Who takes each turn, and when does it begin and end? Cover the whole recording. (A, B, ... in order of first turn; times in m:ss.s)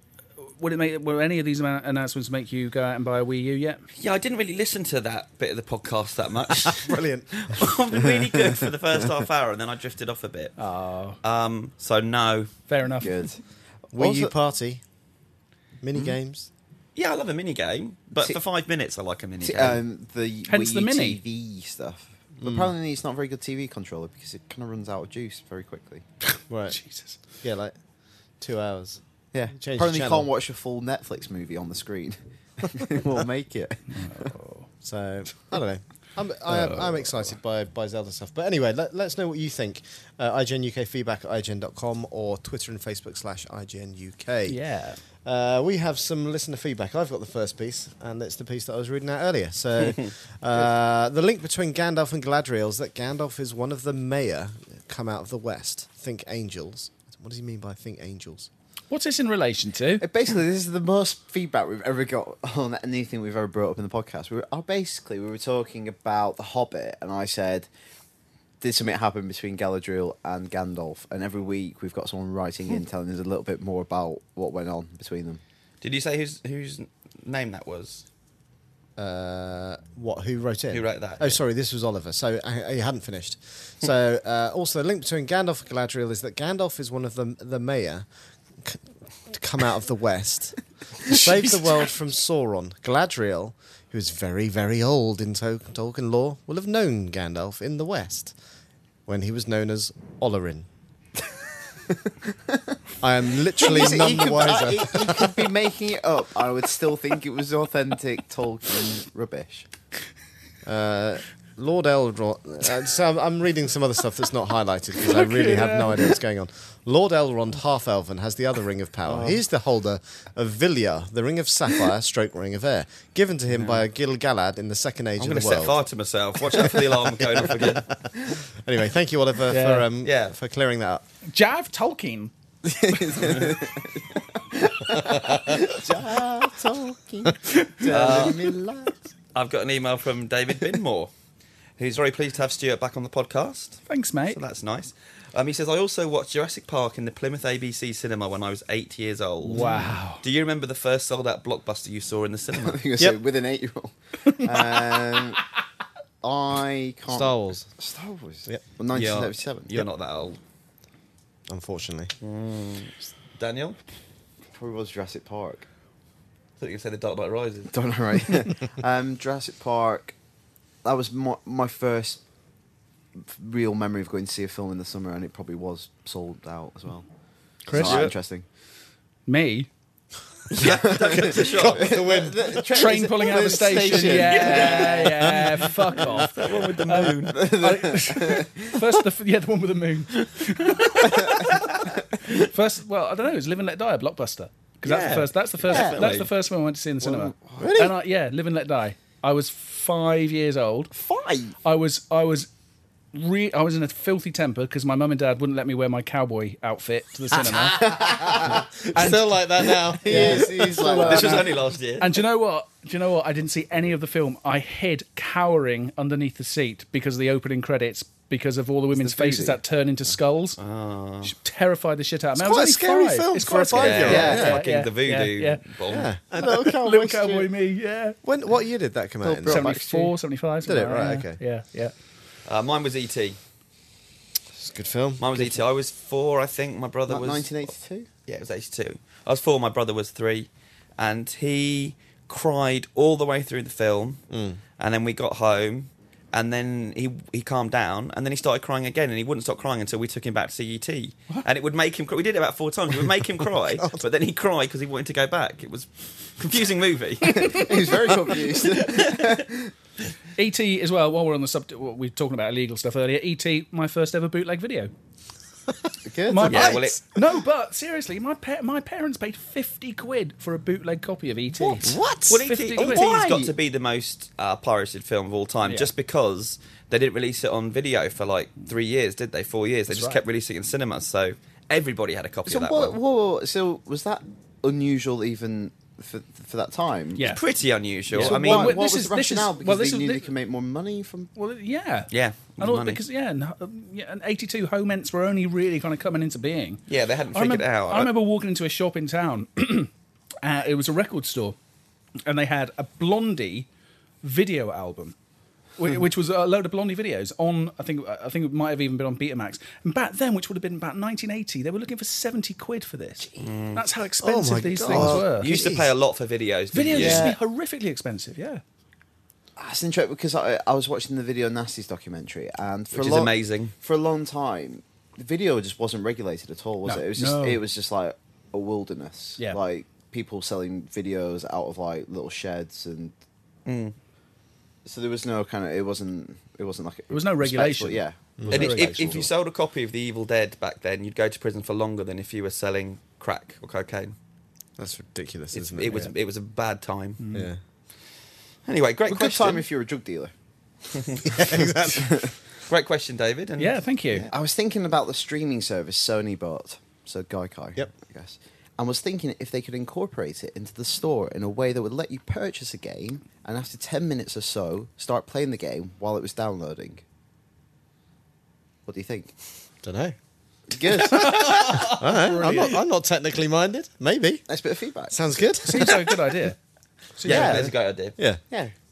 0:00.4-0:03.8 A
0:04.0-0:10.5 B
0:06.6-0:07.6 C
0:10.6-0:11.2 A
0:11.2-0:12.5 B
0:12.7-0:13.2 A
0:13.0-0:13.4 D
0:13.9-0:14.8 C
0:13.9-0:14.3 D
0:15.8-0:16.5 C
0:17.0-0:19.8 B
0:19.4-0:26.0 D
0:20.5-0:21.2 A
0:22.4-0:22.7 C
0:26.5-0:26.8 C
0:26.7-0:27.2 A
0:27.4-0:27.7 C
0:28.4-0:29.0 C
0:29.3-0:34.3 D
0:29.5-0:30.3 C
0:33.9-0:34.7 A
0:34.8-0:44.6 C
0:36.5-0:37.3 A
0:44.5-0:45.0 A
0:45.2-0:58.5 C
0:58.9-1:00.0 A
1:00.0-1:07.7 D
1:08.6-1:15.4 D
1:15.8-1:18.0 B
1:19.0-1:28.1 C
1:20.7-1:21.4 B
1:28.6-1:38.3 C
1:39.1-1:40.7 C
1:41.9-1:42.8 D
1:43.0-1:45.5 C
1:43.6-1:49.7 D
1:50.6-2:05.8 C
1:55.1-1:56.1 A
1:59.1-1:59.4 D
2:03.5-2:03.8 B
2:05.2-2:07.9 B
2:06.5-2:07.0 C
2:07.6-2:11.0 C
2:09.5-2:09.9 A
2:10.0-2:10.3 B
2:11.3-2:12.3 A
2:12.6-2:19.1 D
2:13.2-2:13.5 B
2:15.0-2:15.6 C
2:17.9-2:18.5 B
2:19.3-2:21.1 B
2:21.8-2:29.6 B
2:23.9-2:24.4 A
2:29.5-2:30.2 A
2:30.2-2:32.8 B
2:32.6-2:35.5 D
2:36.2-2:39.8 D
2:37.1-2:37.7 C
2:38.9-2:40.4 B
2:41.5-2:42.1 C
2:42.2-2:43.8 B
2:44.5-2:45.7 D
2:46.6-2:47.7 B
2:47.7-2:50.1 D
2:50.8-2:52.2 D
2:53.2-2:57.1 D
2:57.6-2:58.1 A
2:57.7-2:58.4 D
2:57.7-2:58.1 B
2:59.3-2:59.7 A
3:00.5-3:02.0 B
3:00.5-3:05.3 D
3:00.6-3:02.9 C
3:02.7-3:11.7 A
3:04.1-3:07.4 B
3:07.2-3:08.8 D
3:11.0-3:12.4 D
3:12.4-3:20.9 A
3:14.8-3:16.3 B
3:15.7-3:16.0 D
3:17.0-3:17.8 D
3:17.6-3:17.9 C
3:20.9-3:21.6 D
3:21.6-3:22.5 A
3:23.1-3:27.8 A
3:27.5-3:28.7 D
3:27.9-3:31.4 C
3:28.9-3:29.4 A
3:29.9-3:31.6 D
3:30.0-3:40.6 A
3:31.0-3:32.2 B
3:38.9-3:39.6 D
3:40.6-3:41.3 B
3:41.2-3:45.6 A
3:42.4-3:44.6 C
3:43.7-3:46.1 B
3:44.0-3:44.5 D
3:45.9-3:47.5 C
3:46.3-3:48.2 A
3:48.2-3:49.8 C
3:49.2-3:50.1 D
3:49.4-3:51.9 A
3:50.6-3:51.4 C
3:52.4-3:53.4 B
3:54.5-3:55.6 C
3:55.2-3:57.7 B
3:57.1-3:58.1 D
3:58.3-4:04.2 B
4:04.3-4:04.6 C
4:04.8-4:19.3 B
4:17.2-4:19.7 D
4:20.3-4:24.9 A
4:26.0-4:26.8 D
4:26.3-4:33.2 A
4:26.4-4:27.0 C
4:26.4-4:27.0 B
4:31.8-4:32.4 C
4:32.2-4:43.0 B
4:32.8-4:33.5 D
4:35.6-4:35.9 A
4:39.9-4:40.2 A
4:42.5-4:47.3 D
4:47.2-4:47.4 A
4:47.3-4:48.8 B
4:48.1-4:50.3 A
4:48.1-4:51.3 D
4:51.4-4:59.9 A
4:52.1-4:53.0 B
4:56.9-4:58.1 B
5:00.4-5:01.6 A
5:02.2-5:03.7 A
5:04.2-5:05.2 A
5:05.8-5:15.5 A
5:13.4-5:13.8 B
5:14.2-5:15.9 C
5:14.8-5:17.3 B
5:16.7-5:18.6 A
5:16.9-5:17.4 D
5:19.6-5:33.1 D
5:22.9-5:23.7 B
5:26.8-5:27.6 A
5:33.6-5:33.9 B
5:34.8-5:39.2 D
5:37.1-5:39.3 A
5:38.4-5:38.7 C
5:38.5-5:44.1 B
5:44.8-5:46.1 C
5:45.5-5:47.2 B
5:47.2-5:47.5 A
5:47.3-5:47.6 C
5:48.6-5:49.6 B
5:49.1-5:50.3 D
5:50.9-5:51.2 B
5:51.2-5:52.3 C
5:51.7-5:52.3 D
5:52.6-5:54.2 B
5:53.6-5:54.3 A
5:54.3-6:07.0 D
6:08.8-6:09.3 D
6:09.8-6:10.2 C
6:10.7-6:11.9 D
6:11.0-6:12.8 A
6:11.3-6:14.4 C
6:14.5-6:15.3 D
6:15.1-6:16.2 C
6:15.6-6:16.6 A
6:17.2-6:17.5 A
6:17.2-6:18.1 B
6:17.2-6:17.7 D
6:17.3-6:18.7 C